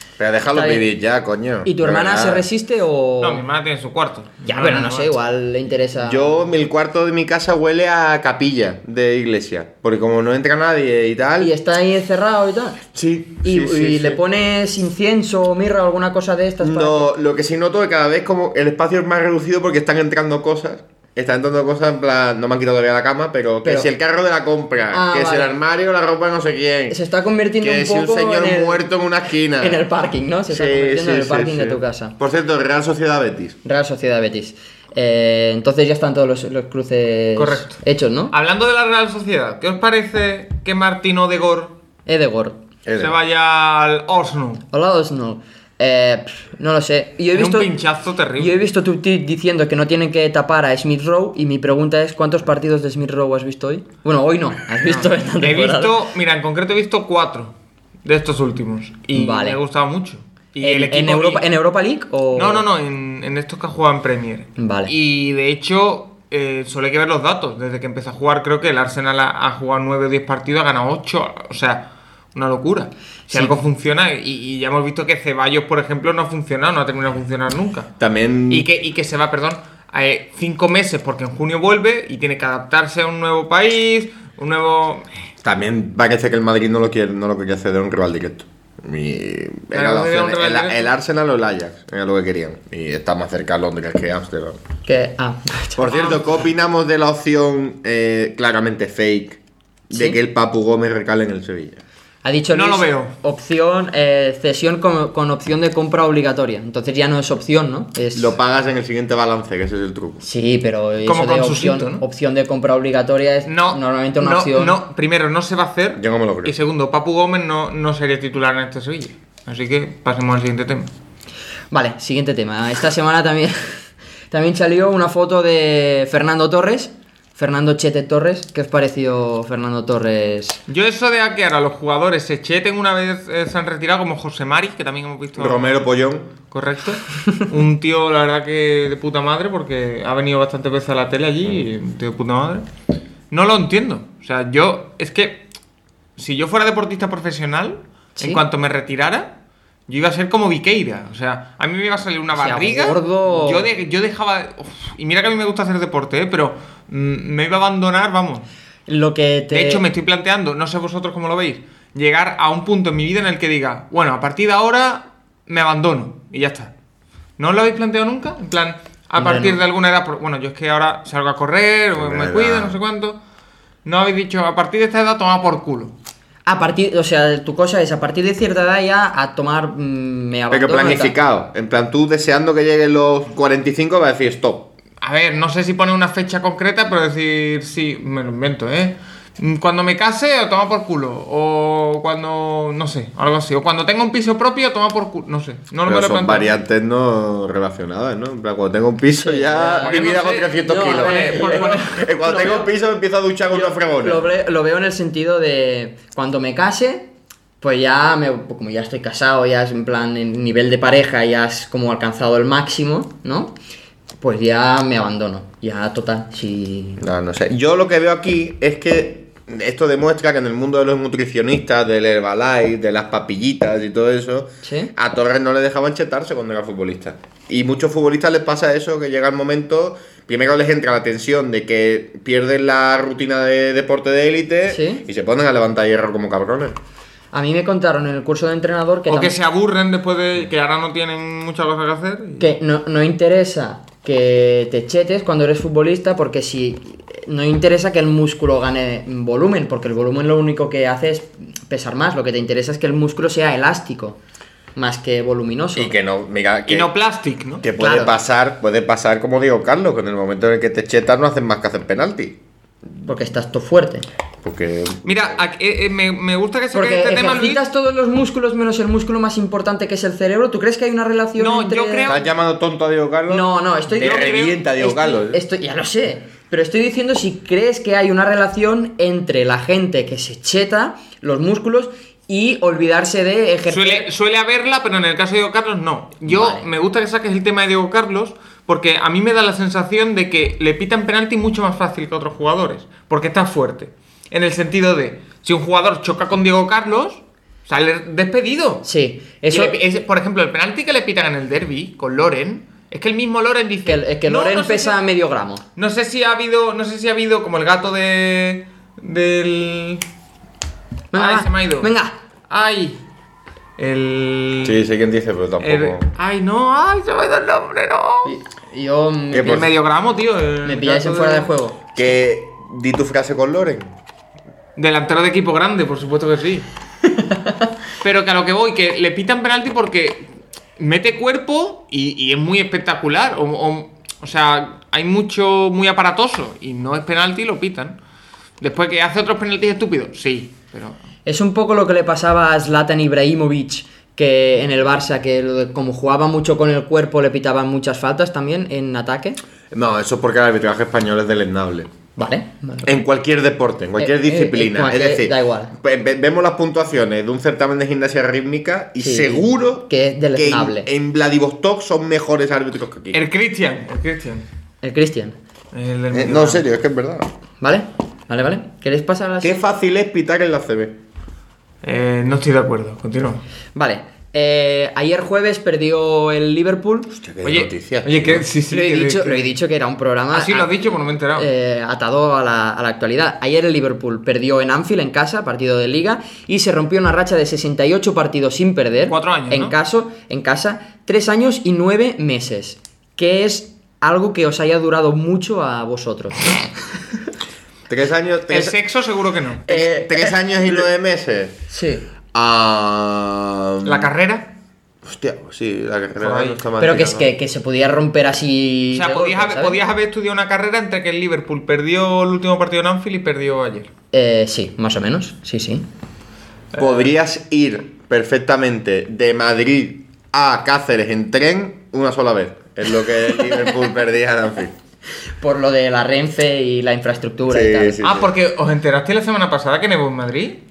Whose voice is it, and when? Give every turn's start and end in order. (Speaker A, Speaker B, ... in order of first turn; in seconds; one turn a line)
Speaker A: 0.2-2.4
Speaker B: 0.5-0.8
Speaker B: 1.6-3.4
Speaker C: 3.2-5.2
Speaker B: 4.5-6.4
Speaker A: 6.0-11.5
Speaker B: 11.4-12.8
Speaker A: 12.9-14.2
Speaker B: 13.4-17.1
Speaker A: 16.6-27.0
Speaker B: 24.9-25.5
Speaker B: 26.9-28.9
Speaker A: 27.6-29.8
Speaker B: 29.6-32.2
Speaker A: 30.5-33.6
Speaker B: 33.6-38.3
Speaker C: 37.4-37.8
Speaker C: 38.3-41.8
Speaker B: 42.1-42.6
Speaker A: 42.9-43.2
Speaker C: 43.0-44.6
Speaker B: 44.7-47.7
Speaker C: 47.3-48.6
Speaker B: 48.4-56.0
Speaker C: 54.8-61.4
Speaker B: 59.1-59.6
Speaker B: 60.6-62.6
Speaker C: 62.3-77.9
Speaker B: 64.6-64.9
Speaker A: 78.0-78.7
Speaker C: 78.5-85.1
Speaker A: 85.4-94.6
Speaker C: 89.7-90.9
Speaker B: 94.9-96.0
Speaker A: 95.8-99.4
Speaker C: 95.9-96.2
Speaker A: 99.9-101.8
Speaker B: 99.9-100.2
Speaker B: 102.2-108.3
Speaker C: 102.5-103.1
Speaker A: 108.1-110.2
Speaker B: 110.2-114.8
Speaker C: 111.0-112.0
Speaker C: 113.5-120.9
Speaker A: 116.0-116.5
Speaker B: 121.7-123.8
Speaker B: 124.3-130.6
Speaker C: 130.7-135.8
Speaker A: 135.4-136.3
Speaker C: 136.5-142.7
Speaker C: 143.3-145.5
Speaker C: 146.2-149.3
Speaker C: 149.9-158.5
Speaker B: 152.3-153.7
Speaker B: 158.9-159.8
Speaker C: 159.5-166.7
Speaker C: 167.4-173.2
Speaker B: 169.2-169.6
Speaker A: 171.9-172.8
Speaker C: 173.8-175.9
Speaker B: 176.5-181.2
Speaker A: 180.5-184.7
Speaker C: 185.0-196.5
Speaker A: 195.9-204.2
Speaker B: 199.2-200.0
Speaker C: 199.7-201.9
Speaker B: 200.6-202.7
Speaker B: 203.5-207.1
Speaker B: 207.6-213.6
Speaker B: 214.2-217.0
Speaker A: 217.0-236.8
Speaker B: 224.6-224.9
Speaker B: 234.7-235.1
Speaker B: 237.3-239.3
Speaker C: 239.1-242.5
Speaker B: 242.4-254.2
Speaker B: 254.8-255.9
Speaker A: 255.8-256.9
Speaker C: 256.7-257.6
Speaker A: 257.6-262.4
Speaker B: 257.8-258.2
Speaker B: 263.1-264.1
Speaker A: 264.4-265.3
Speaker C: 265.0-267.6
Speaker B: 266.7-272.1
Speaker C: 271.4-272.3
Speaker A: 272.1-275.4
Speaker B: 273.3-284.1
Speaker C: 274.0-274.6
Speaker C: 283.7-298.9
Speaker B: 286.2-286.7
Speaker B: 298.8-299.8
Speaker C: 299.5-305.0
Speaker B: 303.9-305.6
Speaker C: 305.8-310.0
Speaker B: 311.1-312.1
Speaker C: 311.1-311.9
Speaker C: 312.5-313.0
Speaker C: 313.8-314.8
Speaker A: 314.6-316.1
Speaker C: 315.6-318.4
Speaker B: 318.2-319.7
Speaker A: 319.3-319.7
Speaker C: 319.4-321.5
Speaker B: 320.6-321.8
Speaker A: 321.9-323.9
Speaker C: 324.8-326.7
Speaker B: 327.1-327.7
Speaker C: 328.0-338.0
Speaker C: 338.6-341.0
Speaker B: 341.3-349.4
Speaker A: 349.7-351.9
Speaker B: 352.2-353.0
Speaker A: 352.8-363.2
Speaker B: 354.0-355.7
Speaker B: 359.0-360.9
Speaker C: 363.1-364.5
Speaker B: 364.8-365.4
Speaker C: 365.7-366.6
Speaker A: 366.1-367.3
Speaker B: 367.6-369.6
Speaker A: 369.4-371.0
Speaker C: 371.8-373.4
Speaker B: 373.8-377.1
Speaker A: 377.1-378.4
Speaker C: 377.4-379.5
Speaker B: 378.7-380.7
Speaker C: 380.3-381.5
Speaker B: 381.4-396.6
Speaker C: 389.1-389.7
Speaker A: 397.9-398.8
Speaker C: 398.5-399.7
Speaker A: 399.7-401.6
Speaker B: 399.7-400.3
Speaker B: 401.7-402.1
Speaker A: 402.3-404.1
Speaker C: 403.8-404.5
Speaker A: 405.0-407.3
Speaker C: 406.2-406.6
Speaker B: 406.8-409.8
Speaker C: 408.9-413.9
Speaker B: 414.1-415.9
Speaker A: 416.7-424.8
Speaker B: 425.4-428.0
Speaker A: 427.5-428.3
Speaker C: 428.0-430.6